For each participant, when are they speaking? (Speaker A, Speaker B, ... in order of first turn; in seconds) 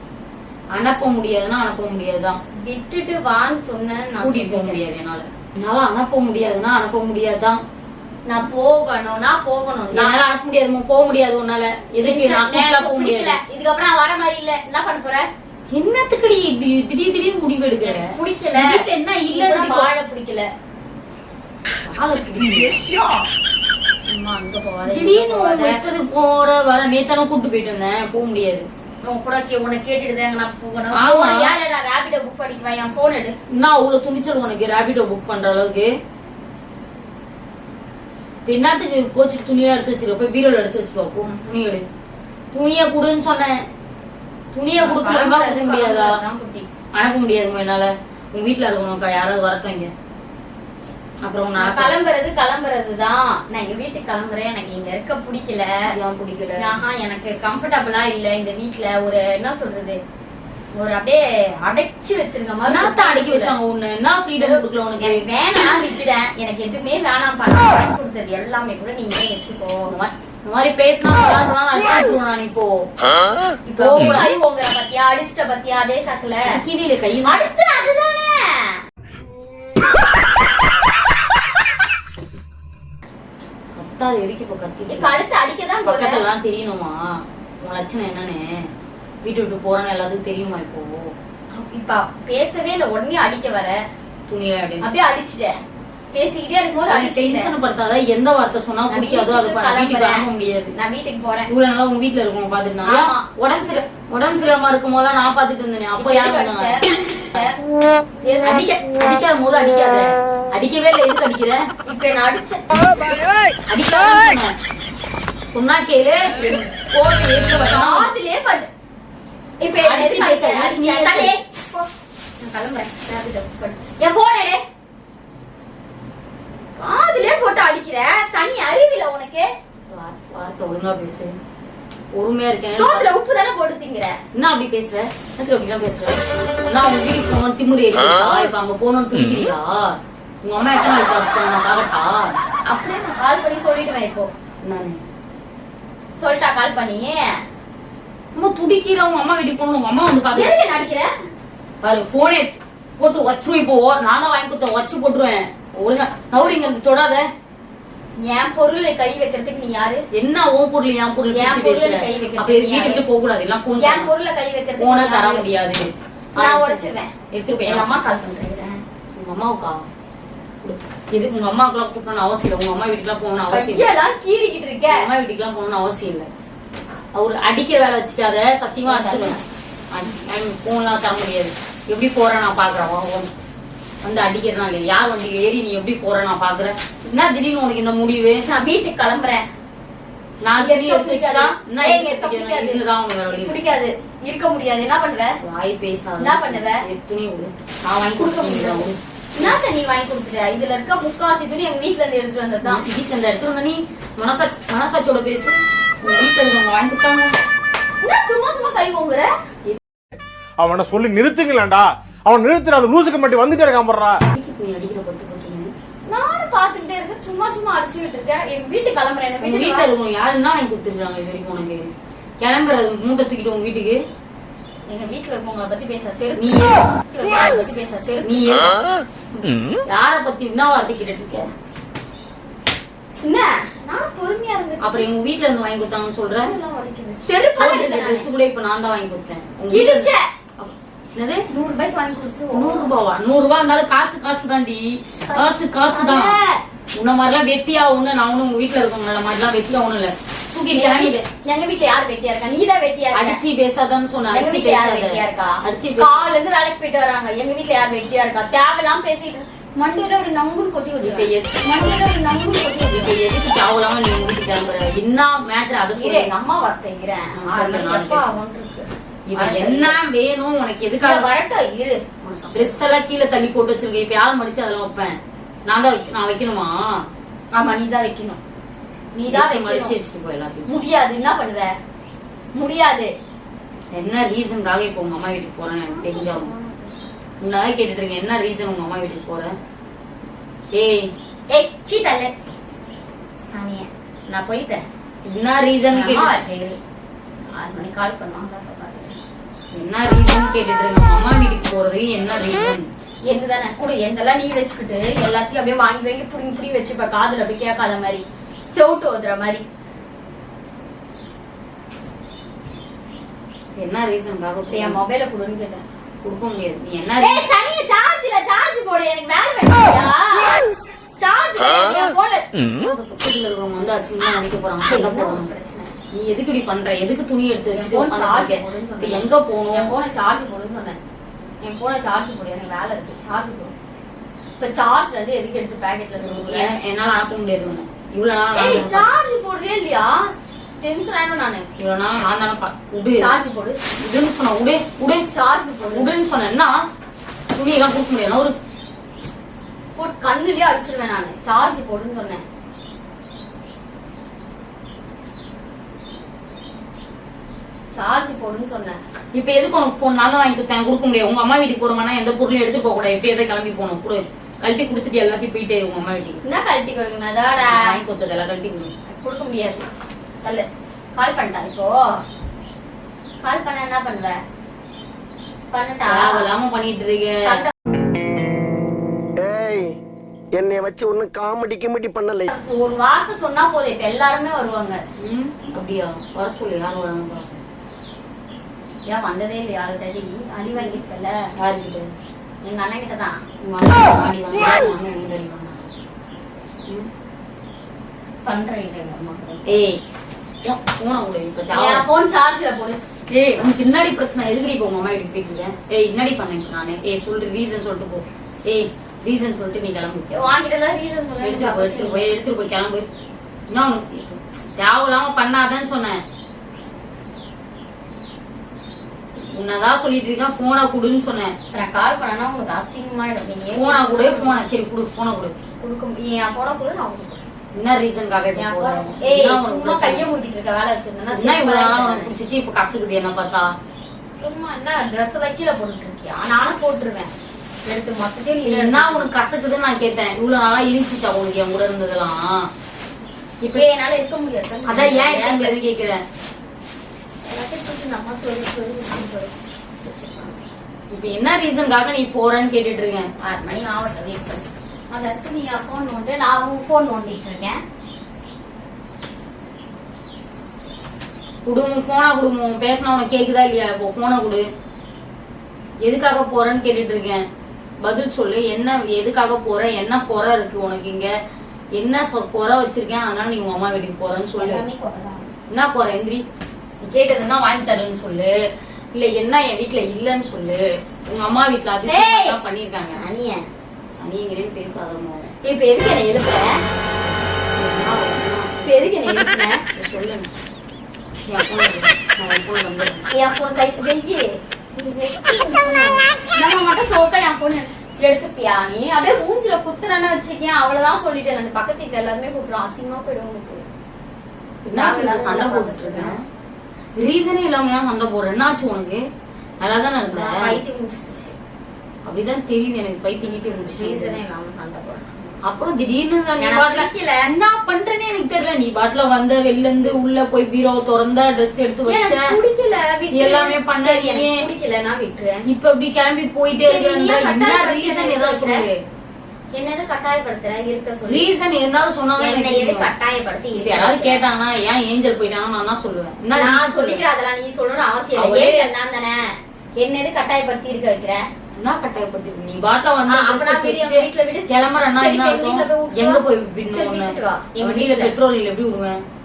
Speaker A: 0.7-2.4, 4.2-7.6, 9.9-13.4, 15.7-19.9, 21.8-22.8, 24.9-28.7, 30.9-31.6, 33.5-35.9, 38.5-41.9, 42.5-43.6, 44.5-46.2, 46.9-49.9, 51.2-52.0, 55.9-56.8, 62.7-65.2, 69.9-72.9, 73.8-74.3, 76.5-77.5, 83.8-85.2, 85.8-88.7, 89.2-91.1, 94.3-94.9, 96.9-100.7, 101.5-106.8, 108.5-111.6, 113.7-114.5, 115.5-118.1, 119.8-121.4, 129.9-131.3, 132.1-133.1, 134.3-142.4, 144.6-145.0, 148.3-150.6, 151.8-157.3, 160.1-164.1, 164.8-167.9, 169.2-169.8, 170.6-173.9, 174.9-176.3, 177.1-179.4, 179.9-183.3, 184.0-188.4, 190.4-193.6, 195.4-199.6, 202.6-207.4, 214.3-215.7, 219.4-221.9, 222.4-224.0, 226.4-226.8, 228.2-228.8, 229.4-231.5, 234.8-236.6, 237.6-241.5, 242.5-246.4, 246.9-251.2, 253.1-256.3, 261.0-261.6, 262.9-266.3, 267.4-268.3, 269.3-271.3, 272.5-276.8, 279.3-280.7, 283.9-286.5, 287.4-289.6, 290.7-291.1, 295.2-296.4, 299.7-302.9, 313.8-315.0, 316.2-317.5, 322.6-325.5, 326.1-329.9, 336.2-339.1, 341.8-343.3, 344.0-345.3, 345.9-346.8, 347.5-348.6, 359.3-366.4, 367.6-368.9, 376.1-377.6, 385.2-387.6, 391.6-392.1, 393.6-395.9, 399.7-400.0, 400.6-402.1, 403.3-410.5, 411.4-413.1, 413.7-416.2, 419.4-421.6, 423.7-425.6, 427.8-430.3, 431.3-433.7, 438.6-442.7, 444.9-446.2, 451.1-453.3, 461.7-464.7, 466.0-467.4, 468.0-471.3, 471.9-474.9, 475.7-476.4, 477.0-478.5, 479.1-483.2, 484.1-485.5, 487.7-489.1, 489.9-490.5, 491.5-493.3, 504.8-506.4, 507.2-509.2, 509.8-510.8, 512.2-514.4, 515.6-522.6, 523.3-524.7, 525.7-529.0, 531.3-533.1, 533.8-537.2, 538.4-538.9, 541.8-549.2
Speaker B: 2.5-4.8, 8.3-10.2, 12.0-15.3, 17.8-20.5, 24.1-25.8, 29.1-33.4, 44.8-46.7, 51.6-55.9, 56.6-60.0, 60.7-63.5, 64.4-69.9, 73.7-76.6, 77.2-78.8, 84.9-86.2, 91.5-93.8, 94.8-95.6, 96.1-97.5, 98.9-101.5, 102.8-103.3, 106.0-107.6, 108.2-108.7, 111.9-112.8, 117.7-118.7, 119.6-121.9, 122.4-124.6, 126.8-129.5, 132.8-134.2, 142.7-144.3, 146.2-147.3, 150.3-151.1, 158.2-160.0, 161.3-163.0, 163.8-165.5, 166.4-168.8, 173.5-175.1, 178.9-179.4, 188.4-189.5, 190.6-195.4, 196.2-196.9, 198.2-202.8, 208.0-209.3, 216.1-219.9, 224.9-228.8, 233.2-235.1, 236.4-238.3, 239.7-240.3, 241.5-242.9, 245.3-246.6, 250.7-253.4, 254.3-263.1, 265.9-270.0, 271.0-272.8, 277.6-278.4, 279.1-279.9, 280.7-281.7, 282.6-283.1, 285.9-287.1, 291.5-292.3, 293.5-294.9, 295.9-296.8, 297.5-299.2, 303.3-309.6, 314.7-315.8, 317.1-320.6, 321.2-322.5, 324.9-325.9, 327.7-331.0, 331.6-333.7, 334.6-336.7, 338.5-341.7, 343.2-343.8, 345.3-346.1, 350.0-352.4, 357.9-359.0, 366.4-368.0, 369.1-369.9, 370.4-372.2, 373.4-374.4, 375.7-376.5, 377.4-377.7, 382.5-385.0, 389.1-391.4, 392.6-393.4, 398.4-399.8, 401.7-403.0, 410.3-412.3, 421.7-424.6, 425.8-427.5, 428.6-432.3, 434.4-437.3, 437.8-439.3, 443.7-445.8, 447.4-450.6, 453.4-457.8, 474.6-475.5, 482.1-482.6, 483.1-483.6, 485.6-486.8, 488.8-489.8, 493.3-503.9, 504.9-506.4, 510.3-511.6, 513.5-515.5, 516.6-517.5, 522.1-525.7, 526.8-528.9, 529.7-531.5, 532.4-534.4, 536.5-541.5, 543.3-548.4
Speaker C: 210.6-214.2
Speaker D: 379.4-379.9, 380.5-382.5